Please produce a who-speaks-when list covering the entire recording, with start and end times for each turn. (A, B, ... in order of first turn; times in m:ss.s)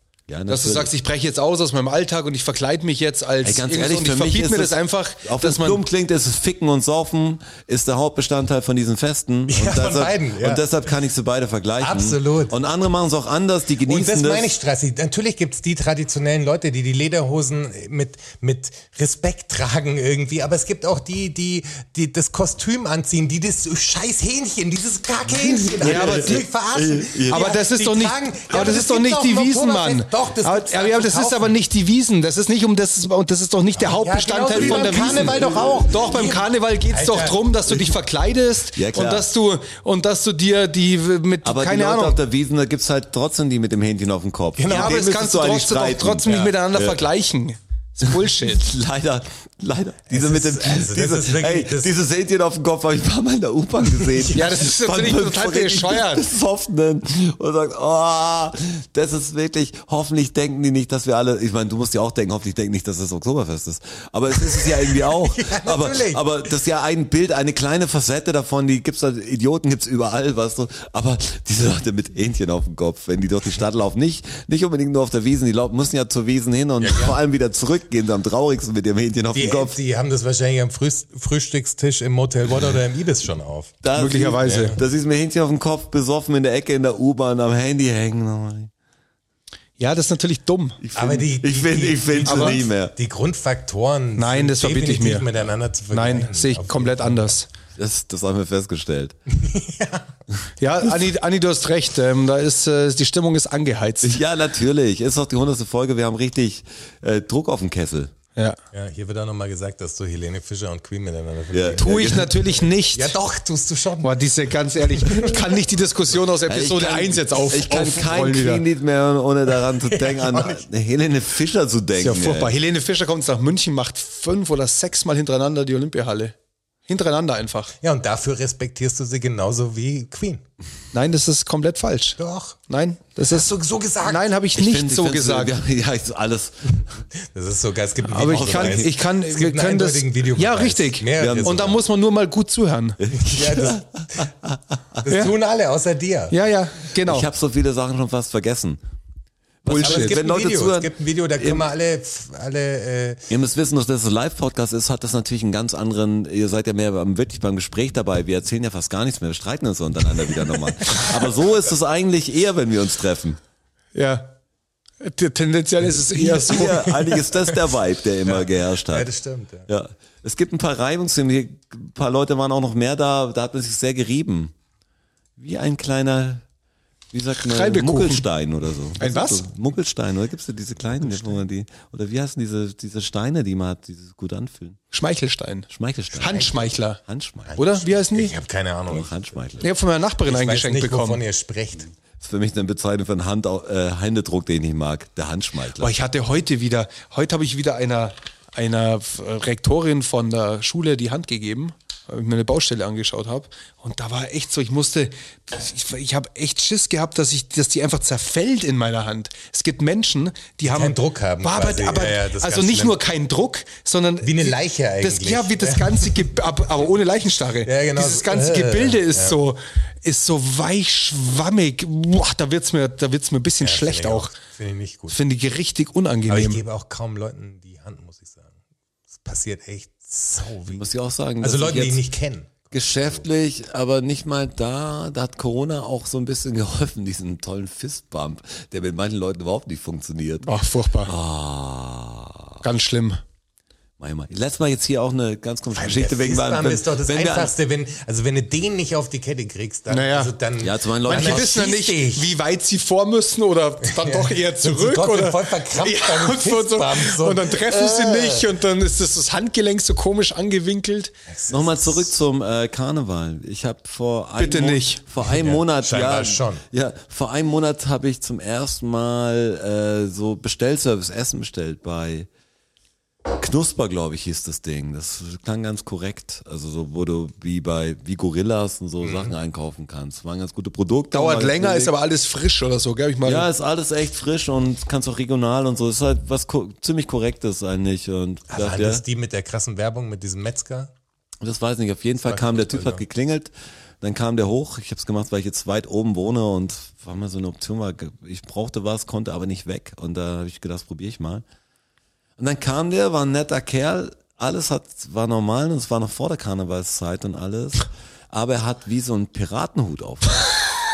0:00.3-0:00.9 A
0:00.5-0:05.8 B
0:03.4-0:14.6 A
0:09.5-0:10.6 C
0:11.8-0:12.5 C
0:13.8-0:31.5 C
0:25.3-0:27.5 A
0:25.8-0:26.4 B
0:27.3-0:42.2 B
0:33.8-0:37.4 C
0:34.5-0:36.0 A
0:38.8-0:39.3 A
0:41.4-0:47.0 A
0:44.6-0:45.0 C
0:44.7-0:48.6 B
0:48.0-1:19.8 A
0:50.1-0:51.9 C
0:53.9-0:54.4 C
0:54.3-0:56.3 B
1:04.4-1:06.4 C
1:16.8-1:17.2 C
1:19.3-1:23.8 C
1:23.8-1:28.7 A
1:23.9-1:24.8 B
1:24.4-1:24.8 C
1:29.8-1:30.8 B
1:30.8-1:32.9 A
1:31.0-1:37.4 C
1:32.2-1:32.6 B
1:34.2-1:35.3 B
1:35.9-1:37.5 B
1:37.8-1:39.2 A
1:39.3-1:40.2 C
1:40.6-1:44.2 B
1:44.0-1:48.1 A
1:48.7-1:54.2 C
1:51.5-1:52.4 A
1:51.8-1:53.2 B
1:54.0-1:58.6 B
1:54.9-1:55.4 C
1:56.4-2:02.5 A
1:59.7-2:00.6 C
2:02.0-2:06.3 B
2:06.9-2:07.7 B
2:07.8-2:10.4 C
2:10.9-2:13.5 B
2:12.2-2:12.6 C
2:13.2-2:14.3 C
2:14.0-2:15.5 B
2:14.5-2:16.8 A
2:17.2-2:21.8 C
2:18.1-2:23.0 B
2:18.2-2:18.9 A
2:21.2-2:21.8 A
2:23.0-2:25.0 A
2:23.2-2:24.3 C
2:25.0-2:26.3 C
2:25.1-2:25.3 B
2:26.3-2:27.3 B
2:27.0-2:28.8 A
2:29.6-2:31.6 A
2:29.6-2:30.2 B
2:29.8-2:33.3 C
2:33.3-2:43.4 A
2:43.9-2:44.3 B
2:45.0-2:47.0 B
2:46.2-2:47.2 C
2:46.3-2:49.1 A
2:48.3-2:49.7 C
2:49.7-2:54.5 A
2:55.4-2:56.4 A
2:57.1-3:04.8 A
2:57.4-2:58.2 B
2:59.0-2:59.5 B
3:01.0-3:01.4 C
3:04.9-3:07.0 B
3:05.7-3:07.6 A
3:07.5-3:09.2 C
3:07.6-3:08.3 B
3:08.9-3:09.7 A
3:09.6-3:11.2 B
3:10.2-3:11.9 C
3:12.2-3:15.9 A
3:15.8-3:44.4 B
3:30.6-3:33.0 C
3:34.2-3:36.3 C
3:37.6-3:39.4 C
3:43.6-3:45.2 C
3:45.1-3:46.6 B
3:46.3-3:48.5 C
3:49.1-3:50.8 C
3:50.7-3:52.0 A
3:51.4-3:53.2 C
3:52.7-4:00.5 A
4:00.4-4:01.1 B
4:01.0-4:02.6 A
4:02.6-4:03.2 B
4:04.0-4:07.5 A
4:05.7-4:12.3 C
4:09.9-4:10.3 B
4:10.6-4:11.6 A
4:11.0-4:21.1 B
4:13.8-4:18.5 C
4:21.3-4:22.1 C
4:21.5-4:32.3 A
4:24.4-4:25.0 B
4:25.2-4:26.6 C
4:33.3-4:41.9 A
4:39.0-4:39.3 C
4:41.1-4:43.5 B
4:43.2-4:49.0 A
4:48.5-4:50.9 C
4:51.4-5:01.4 A
4:52.2-4:53.0 C
5:02.4-5:10.6 A